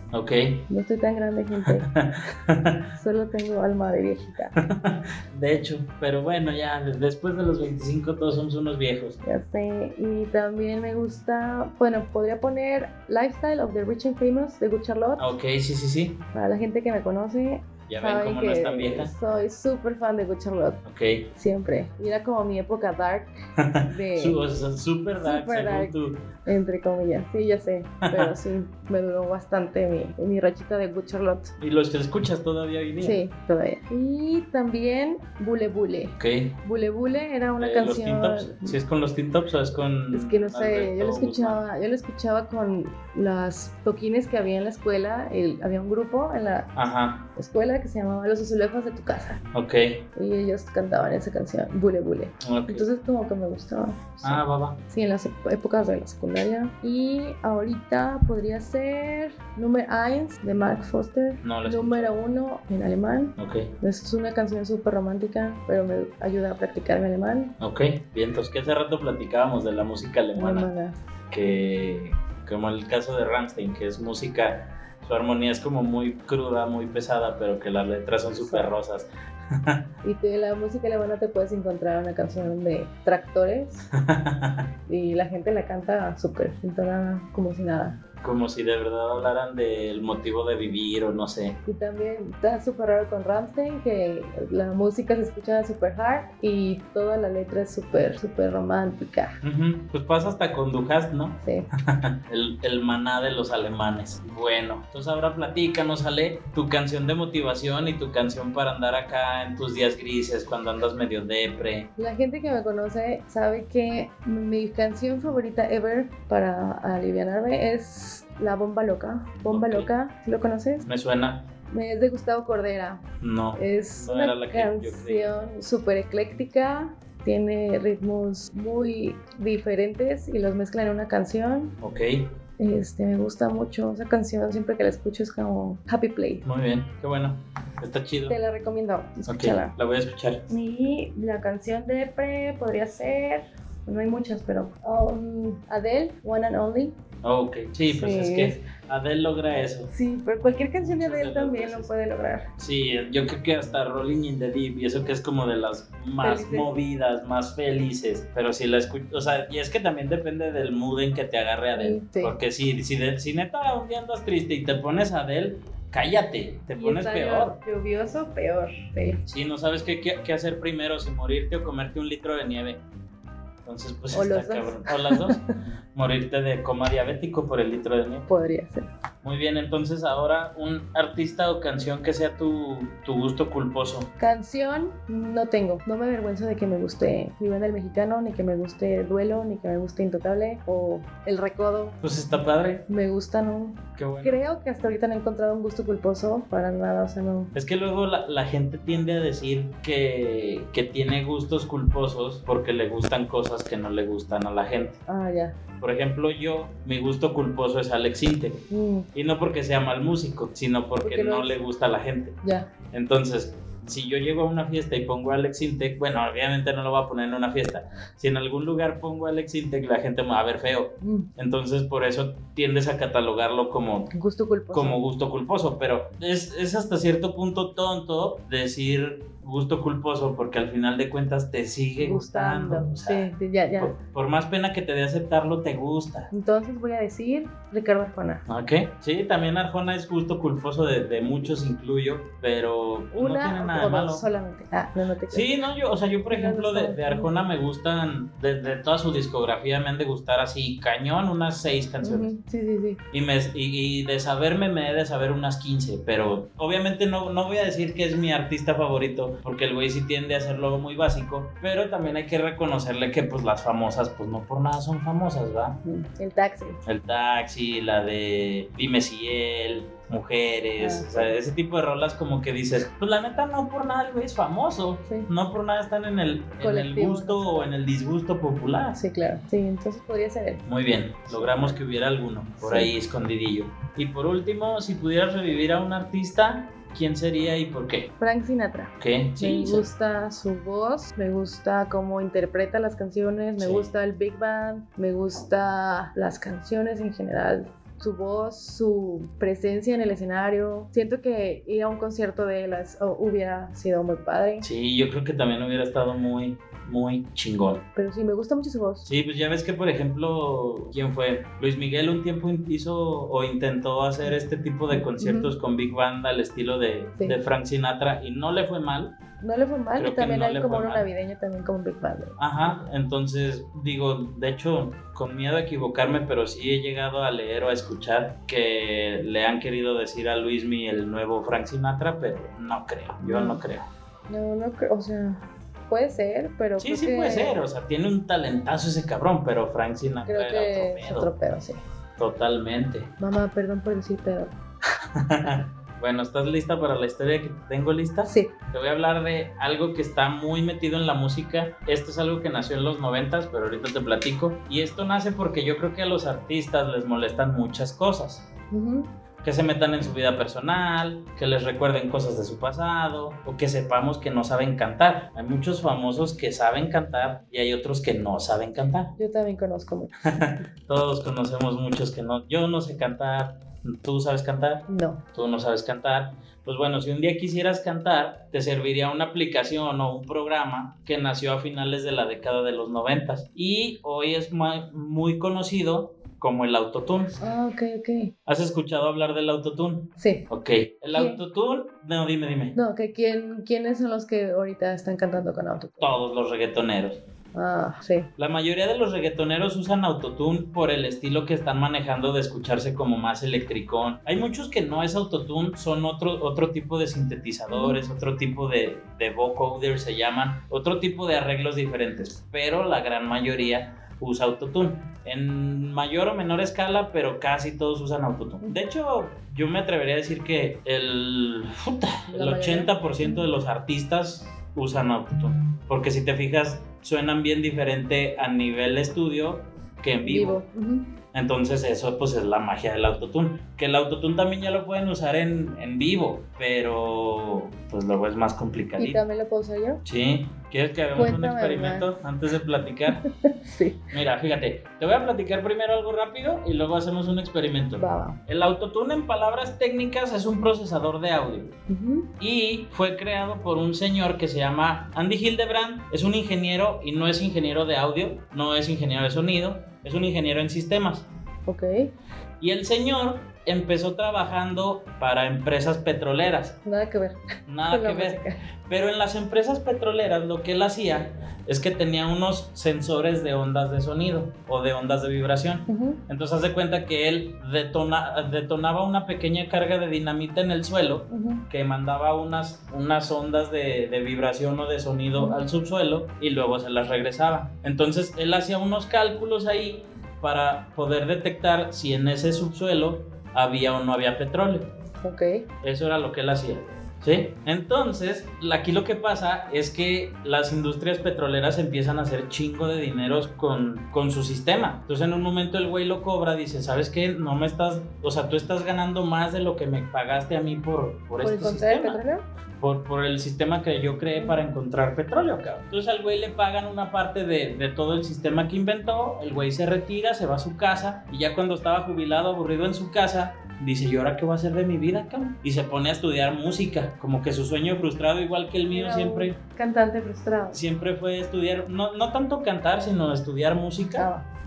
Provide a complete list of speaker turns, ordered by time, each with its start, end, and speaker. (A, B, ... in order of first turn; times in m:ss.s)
0:00.1-0:00.6 A
0:00.7-0:01.9 B
0:01.9-0:02.8 A
0:03.0-0:04.5 B
0:04.6-0:09.2 A
0:09.2-0:15.3 B
0:15.2-0:16.2 A
0:16.3-0:23.3 B
0:17.9-0:19.1 A
0:20.8-0:21.2 A
0:23.6-0:26.2 A
0:23.8-0:24.4 B
0:25.2-0:31.5 B
0:28.0-0:28.3 A
0:31.6-0:33.2 A
0:33.0-0:38.8 B
0:36.2-0:36.6 A
0:37.6-0:41.6 A
0:40.1-0:46.7 B
0:46.7-0:47.3 A
0:47.3-0:49.4 B
0:49.5-0:50.0 A
0:50.1-1:07.5 B
0:52.4-0:52.8 A
0:54.2-0:54.8 A
1:01.4-1:02.1 A
1:03.4-1:03.7 A
1:07.6-1:10.7 A
1:10.4-1:11.0 B
1:11.3-1:19.8 A
1:18.4-1:18.7 B
1:20.0-1:23.8 B
1:24.0-1:24.7 A
1:24.9-1:28.0 B
1:28.2-1:31.6 A
1:31.6-1:39.4 B
1:39.4-1:51.9 A
1:41.4-1:41.7 B
1:52.0-2:00.8 B
1:59.5-1:59.9 A
2:00.8-2:01.4 A
2:01.7-2:03.0 B
2:03.2-2:05.4 A
2:03.6-2:11.7 B
2:11.8-2:12.3 A
2:12.6-2:16.4 B
2:16.4-2:18.4 A
2:18.3-2:19.7 B
2:19.3-2:20.4 A
2:20.5-2:26.9 B
2:27.2-2:29.9 A
2:27.9-2:28.6 B
2:29.9-2:32.5 B
2:30.7-2:31.9 A
2:32.6-2:47.6 A
2:36.2-2:36.7 B
2:41.7-2:42.4 B
2:46.8-2:49.2 B
2:49.2-2:52.8 A
2:53.6-2:55.4 A
2:54.1-2:55.4 B
2:55.9-2:58.3 A
2:58.3-2:58.9 B
2:59.2-3:04.1 A
3:04.2-3:12.0 B
3:12.0-3:12.8 A
3:12.9-3:17.5 B
3:14.0-3:14.3 A
3:17.5-3:25.0 A
3:25.1-3:25.6 B
3:25.8-3:32.4 A
3:28.7-3:29.1 B
3:31.0-3:31.5 B
3:32.4-3:32.7 B
3:32.9-3:44.1 A
3:41.0-3:41.3 B
3:44.1-3:45.0 B
3:44.7-3:56.3 A
3:52.0-3:54.0 B
3:56.3-3:58.4 B
3:58.4-4:04.2 A
4:03.1-4:05.5 B
4:05.3-4:12.3 A
4:06.3-4:07.3 B
4:12.0-4:13.0 B
4:13.1-4:25.8 A
4:25.8-4:26.8 B
4:26.8-4:39.0 A
4:30.8-4:31.3 B
4:36.6-4:37.6 B
4:38.9-4:40.6 B
4:40.6-4:48.1 A
4:41.3-4:41.8 B
4:42.6-4:42.9 B
4:48.2-5:04.7 B
4:49.0-4:49.9 A
4:53.6-4:53.9 A
5:04.6-5:07.8 A
5:08.0-5:09.1 B
5:09.0-5:19.2 A
5:14.9-5:15.5 B
5:19.4-5:22.8 B
5:20.0-5:21.1 A
5:22.4-5:33.9 A
5:33.2-5:33.6 B
5:34.3-5:37.6 B
5:36.8-5:41.3 A
5:40.2-5:41.8 B
5:42.2-5:43.1 A
5:43.2-5:44.5 B
5:45.0-5:58.4 A
5:48.3-5:48.5 B
5:58.7-5:59.1 B
5:59.4-6:09.1 A
6:09.2-6:10.6 B
6:10.3-6:27.4 A
6:14.9-6:15.2 B
6:27.4-6:28.3 B
6:28.4-6:32.8 A
6:30.2-6:30.4 B
6:31.1-6:31.4 B
6:32.8-6:36.2 B
6:36.0-6:37.2 A
6:37.5-6:38.3 B
6:38.4-7:10.6 A
6:47.7-6:48.0 B
7:02.3-7:03.4 B
7:10.2-7:11.1 B
7:11.3-7:19.2 A
7:19.0-7:20.0 B
7:20.0-7:23.2 A
7:21.2-7:22.1 B
7:23.1-7:24.0 B
7:24.1-7:31.8 A
7:28.0-7:28.4 B
7:31.9-7:32.3 B
7:32.4-7:41.3 A
7:41.7-7:42.1 B
7:42.6-7:46.8 A
7:46.8-7:48.6 B
7:47.7-8:14.9 A
7:55.9-7:56.2 B
8:01.3-8:01.6 B
8:05.4-8:05.7 B
8:15.2-8:15.7 B
8:15.8-8:32.2 A
8:31.4-8:32.4 B
8:32.8-8:49.6 A
8:48.9-8:50.8 B
8:50.7-8:54.3 A
8:54.2-8:54.4 B